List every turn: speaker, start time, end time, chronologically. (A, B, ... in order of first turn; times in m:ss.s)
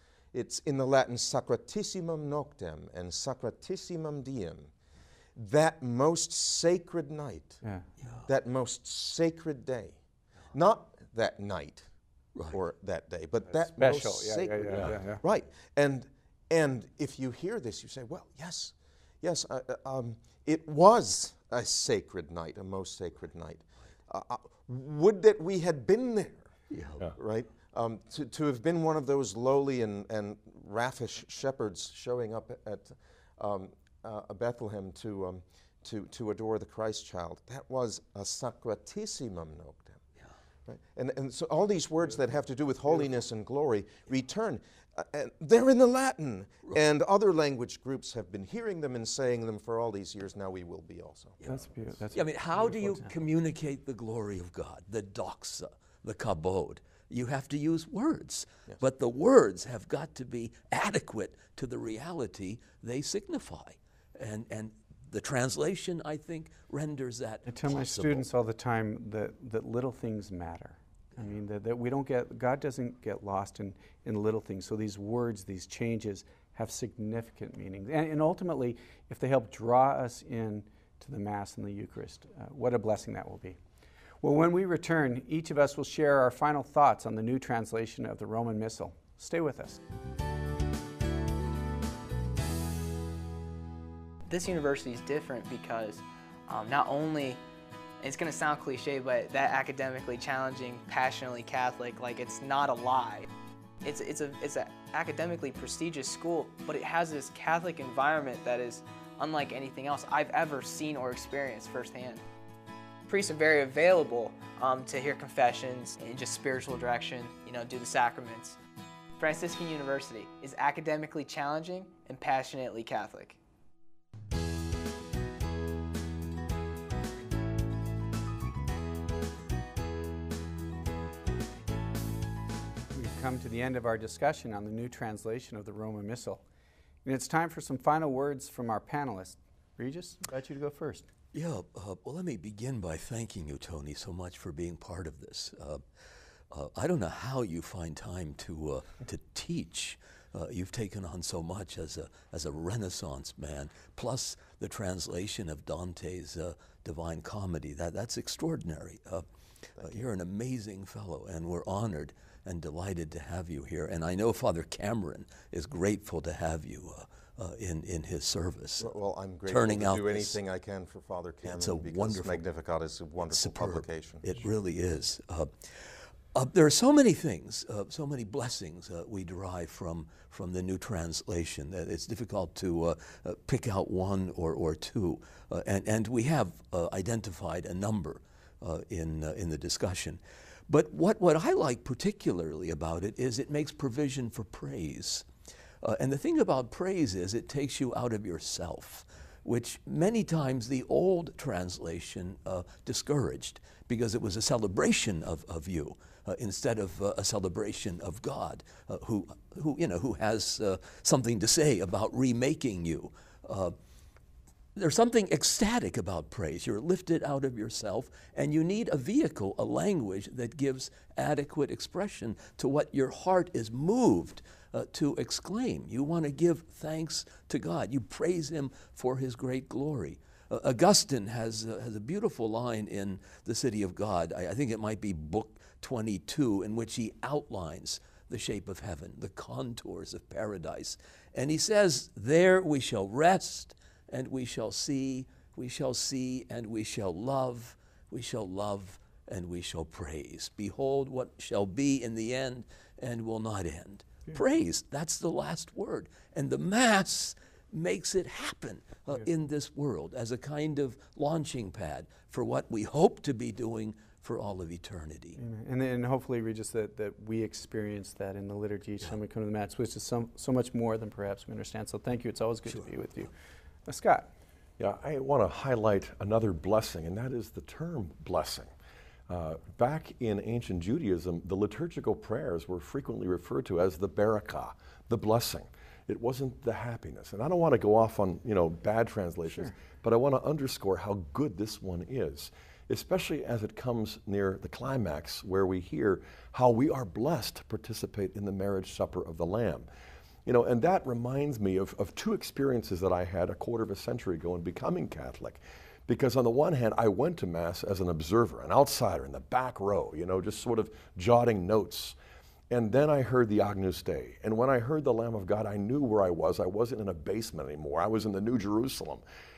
0:00.3-0:04.7 A
0:05.4-0:07.6 A
0:08.2-0:10.0 A
0:10.5-0:11.9 A
0:12.5-0:26.5 A
0:13.6-0:15.2 B
0:26.7-0:27.0 C
0:27.2-0:40.0 A
0:40.6-0:51.4 A
0:51.4-0:53.1 B
0:52.1-1:08.1 C
1:07.5-1:23.6 B
1:24.2-1:29.8 B
1:34.2-1:37.4 D
1:38.0-1:43.3 D
1:43.8-1:52.2 D
1:53.1-1:58.6 D
1:59.2-2:03.4 D
2:12.9-2:16.4 B
2:17.0-2:21.0 B
2:21.3-2:25.8 C
2:26.5-2:39.2 C
2:39.8-2:48.9 C
2:48.8-2:54.2 A
2:49.5-2:50.4 C
2:51.4-2:52.4 C
2:53.3-3:15.3 C
3:15.8-3:33.7 C
3:34.8-4:25.4 C
4:25.4-4:33.3 B
4:33.9-4:34.3 B
4:34.8-4:38.7 E
4:39.3-4:59.9 E
4:49.5-4:49.7 B
5:00.4-5:12.1 E
5:12.7-5:19.2 E